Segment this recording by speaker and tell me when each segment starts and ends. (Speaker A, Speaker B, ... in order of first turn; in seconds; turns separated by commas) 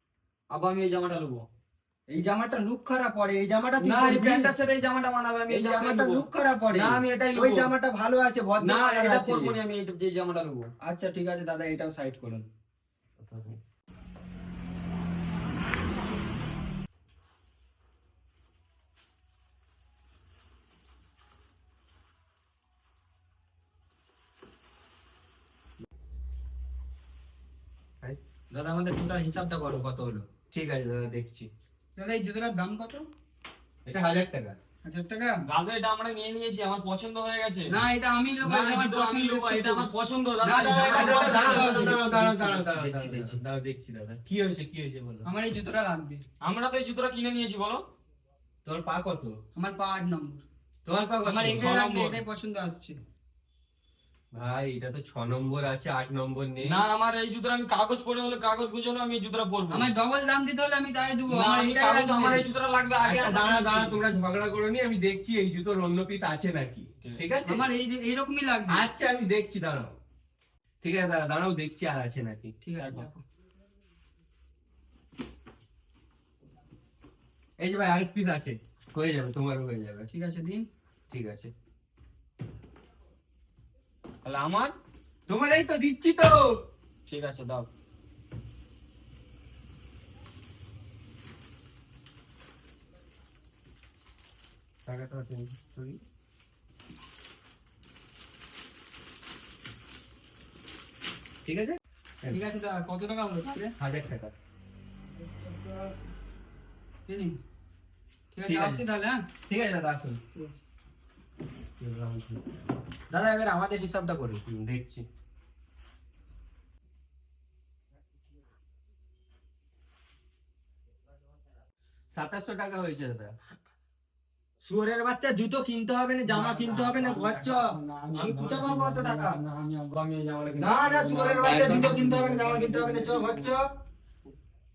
Speaker A: 0.5-1.4, Speaker B: 2.1-4.5, Speaker A: 3.8-7.7, Speaker B: 5.5-9.6, Speaker A: 8.6-10.7, Speaker B: 10.8-12.5, Speaker C: 13.2-13.6, Speaker B: 28.5-30.3, Speaker C: 30.5-31.5, Speaker D: 32.0-33.1, Speaker C: 33.9-34.6, Speaker D: 34.8-35.5, Speaker A: 35.5-37.7, Speaker D: 37.7-42.3, Speaker A: 38.4-43.4, Speaker C: 40.7-45.3, Speaker D: 45.2-46.2, Speaker A: 46.4-47.8, Speaker C: 48.6-49.4, Speaker D: 49.5-50.5, Speaker C: 50.9-51.7, Speaker D: 51.2-53.0, Speaker A: 51.5-52.2, Speaker C: 54.3-56.8, Speaker A: 56.6-59.9, Speaker D: 59.7-62.5, Speaker A: 61.3-64.0, Speaker C: 63.0-67.7, Speaker D: 67.5-68.9, Speaker C: 68.7-70.0, Speaker C: 70.8-72.5, Speaker D: 72.6-73.2, Speaker A: 72.8-73.1, Speaker C: 77.6-80.1, Speaker D: 80.1-80.7, Speaker C: 81.1-81.5, Speaker A: 84.2-84.7, Speaker C: 85.3-86.6, Speaker A: 87.1-87.7, Speaker C: 94.9-96.0, Speaker C: 101.5-102.4, Speaker D: 102.3-103.7, Speaker C: 103.8-104.3, Speaker D: 107.1-107.4, Speaker D: 108.3-109.2, Speaker C: 108.5-108.8, Speaker C: 109.5-110.2, Speaker D: 110.3-110.6, Speaker C: 111.8-112.7, Speaker B: 113.1-114.4, Speaker C: 114.4-115.0, Speaker C: 122.1-123.4, Speaker B: 124.6-129.4, Speaker A: 126.3-133.5, Speaker B: 130.6-133.7, Speaker C: 131.4-131.9